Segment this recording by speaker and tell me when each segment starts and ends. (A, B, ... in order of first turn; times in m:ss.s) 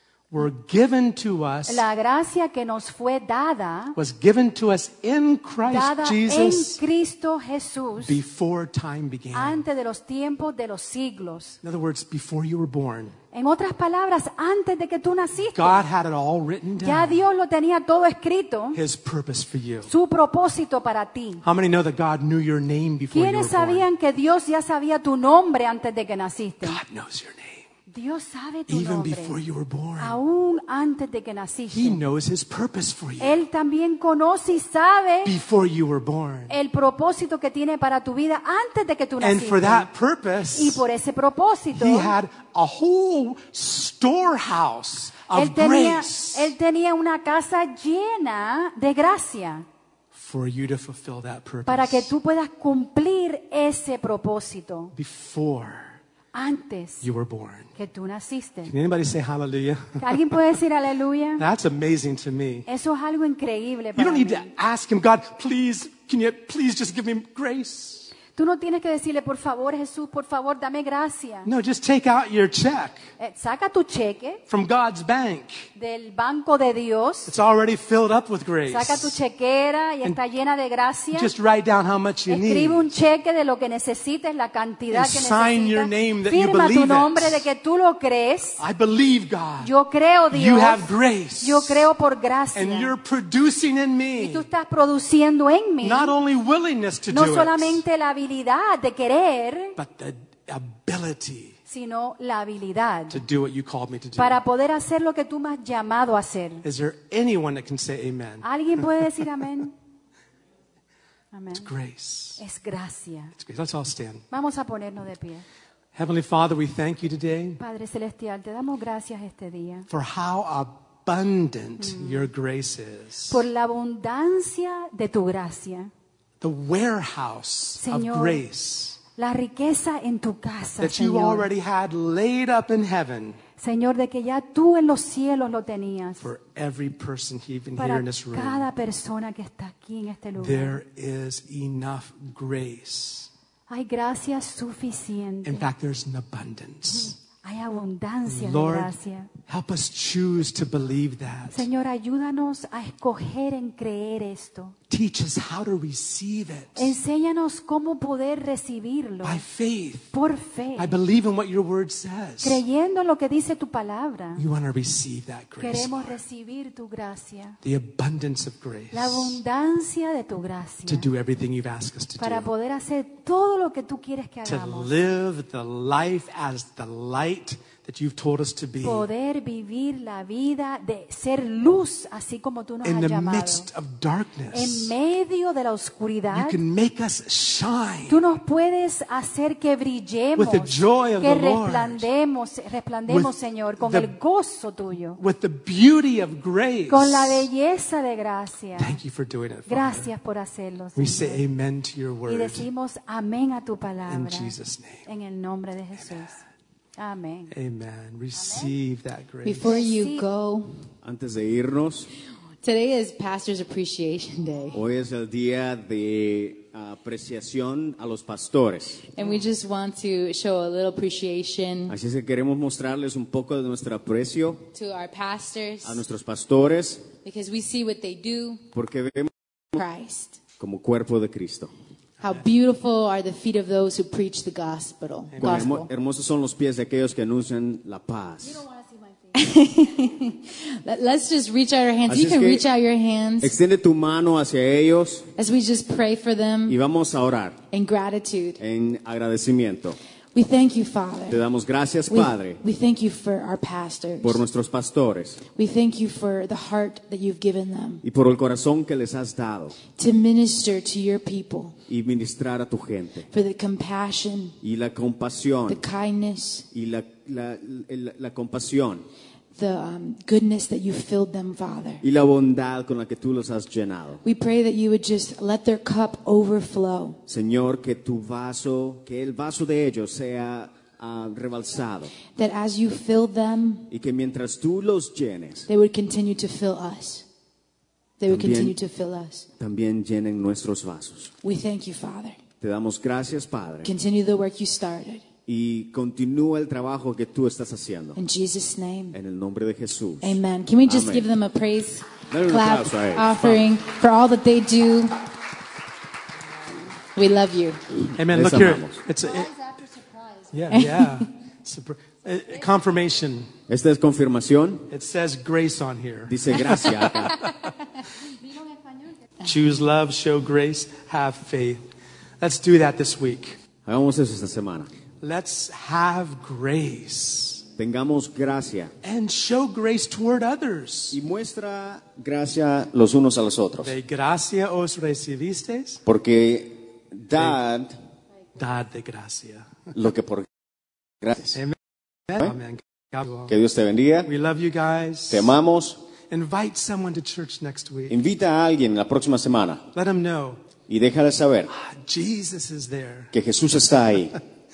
0:00.3-0:01.8 A
0:01.6-0:04.0 B
0:03.9-0:06.8 A
0:05.6-0:08.2 B
0:08.0-0:09.6 A
0:09.3-0:11.6 B
0:11.6-0:13.2 A
0:13.3-0:15.8 B
0:15.5-0:17.2 A
0:16.8-0:18.8 B
0:18.7-0:19.9 A
0:19.9-0:21.4 B
0:21.4-0:23.9 A
0:23.1-0:26.8 B
0:26.6-0:27.6 A
0:27.9-0:29.3 B
0:28.7-0:30.2 A
0:30.0-0:32.0 B
0:31.7-0:33.4 A
0:33.2-0:35.3 B
0:35.2-0:36.5 A
0:36.5-0:39.9 B
0:39.2-0:40.8 A
0:40.5-0:42.1 B
0:41.7-0:46.5 A
0:45.3-0:49.6 B
0:50.1-0:52.1 A
0:51.6-0:54.9 B
0:54.9-0:56.0 A
0:56.3-0:57.0 B
0:57.0-0:57.7 A
0:57.7-0:58.7 B
0:58.6-1:00.4 A
1:00.0-1:01.4 B
1:01.4-1:02.7 A
1:02.7-1:04.5 B
1:04.0-1:08.1 A
1:08.3-1:11.5 B
1:11.4-1:13.0 A
1:13.2-1:14.4 B
1:14.5-1:15.7 A
1:15.8-1:17.3 B
1:17.3-1:19.2 A
1:18.7-1:21.3 B
1:21.1-1:22.9 A
1:22.3-1:28.6 B
1:24.9-1:27.4 A
1:28.6-1:29.7 A
1:29.6-1:32.9 B
1:30.3-1:31.9 A
1:32.5-1:34.5 A
1:34.2-1:36.1 B
1:35.8-1:37.8 A
1:37.1-1:39.8 B
1:39.8-1:41.6 A
1:41.7-1:43.2 B
1:43.1-1:44.4 A
1:44.2-1:46.6 B
1:46.6-1:49.1 A
1:48.4-1:49.7 B
1:51.3-1:51.7 B
1:51.5-1:52.4 A
1:52.4-1:53.3 B
1:53.3-1:54.2 A
1:54.3-1:55.4 B
1:55.9-1:57.6 A
1:57.6-1:59.9 B
1:59.9-2:03.4 A
2:01.8-2:02.3 B
2:03.3-2:05.9 B
2:06.4-2:09.0 A
2:07.8-2:08.4 B
2:09.2-2:11.5 B
2:10.8-2:13.4 A
2:13.6-2:16.2 B
2:16.2-2:18.6 A
2:17.8-2:20.8 B
2:20.4-2:23.3 A
2:23.7-2:25.7 B
2:25.4-2:27.2 A
2:27.4-2:29.3 B
2:28.2-2:28.9 A
2:29.5-2:31.7 A
2:31.5-2:34.8 B
2:34.9-2:37.0 A
2:36.8-2:39.4 B
2:39.2-2:40.1 A
2:40.1-2:40.9 B
2:40.8-2:42.6 A
2:42.4-2:44.4 B
2:44.4-2:46.2 A
2:45.6-2:47.6 B
2:47.6-2:49.4 A
2:48.9-2:51.1 B
2:50.9-2:52.5 A
2:52.2-2:54.9 B
2:54.4-2:59.1 A
2:58.8-3:03.7 B
3:02.8-3:04.9 A
3:04.5-3:06.6 B
3:06.3-3:08.2 A
3:08.1-3:15.2 B
3:10.4-3:12.1 A
3:13.1-3:14.1 A
3:15.2-3:17.5 A
3:16.9-3:19.0 B
3:18.8-3:20.1 A
3:19.7-3:21.4 B
3:21.0-3:22.7 A
3:22.3-3:24.5 B
3:24.1-3:25.1 A
3:25.0-3:26.4 B
3:27.0-3:27.5 B
3:27.5-3:29.7 A
3:28.3-3:28.7 B
3:29.4-3:30.7 C
3:29.6-3:30.2 B
3:31.0-3:32.1 D
3:32.6-3:34.8 C
3:34.7-3:39.1 D
3:39.1-3:42.0 C
3:41.9-3:44.6 D
3:44.7-3:46.0 C
3:45.8-3:47.1 D
3:47.2-3:48.6 C
3:48.7-3:49.8 D
3:49.7-3:50.4 C
3:50.6-3:51.7 D
3:52.2-3:52.4 A
3:52.2-3:55.9 C
3:55.3-3:55.7 A
3:55.4-3:58.6 D
3:59.3-4:03.6 C
4:02.1-4:02.7 D
4:03.4-4:05.3 D
4:05.4-4:06.8 C
4:06.7-4:07.6 D
4:07.7-4:08.6 C
4:08.6-4:10.0 D
4:10.3-4:11.4 C
4:11.3-4:12.6 D
4:12.1-4:14.4 C
4:14.2-4:15.4 D
4:15.5-4:18.0 C
4:18.0-4:19.8 D
4:19.9-4:21.8 C
4:21.9-4:23.3 D
4:23.3-4:24.6 C
4:24.6-4:25.8 D
4:25.7-4:26.7 C
4:26.7-4:29.0 D
4:29.6-4:32.0 C
4:32.0-4:34.2 D
4:34.2-4:37.2 C
4:37.3-4:42.1 D
4:42.3-4:43.9 C
4:43.9-4:45.7 D
4:45.7-4:47.2 C
4:48.2-4:49.5 C
4:48.3-4:48.8 D
4:49.6-4:51.3 D
4:51.4-4:52.4 C
4:52.6-4:53.9 D
4:53.8-4:55.2 C
4:55.4-4:58.2 D
4:58.2-4:59.2 C
4:59.1-5:01.3 D
5:00.2-5:05.2 C
5:02.3-5:03.6 D
5:07.2-5:07.9 C
5:08.2-5:09.5 A
5:08.2-5:09.0 D
5:10.5-5:13.5 A
5:10.7-5:11.3 C
5:13.7-5:14.9 D
5:14.9-5:17.1 A
5:16.3-5:17.5 D
5:19.4-5:21.8 A
5:22.4-5:23.6 A
5:23.8-5:24.9 D
5:25.2-5:27.6 A
5:27.8-5:28.9 D
5:29.0-5:31.2 A
5:31.1-5:33.9 D
5:33.8-5:36.0 A
5:36.0-5:37.9 D
5:37.3-5:37.6 A
5:38.6-5:39.7 A
5:39.9-5:40.5 D
5:41.2-5:41.6 D
5:42.3-5:43.5 A
5:43.5-5:44.3 D
5:44.2-5:45.5 A
5:45.3-5:46.0 D
5:46.3-5:48.2 A
5:48.1-5:49.9 D
5:49.9-5:50.6 A
5:50.9-5:51.7 D
5:51.7-5:53.3 A
5:53.3-5:54.4 D
5:54.1-5:54.4 A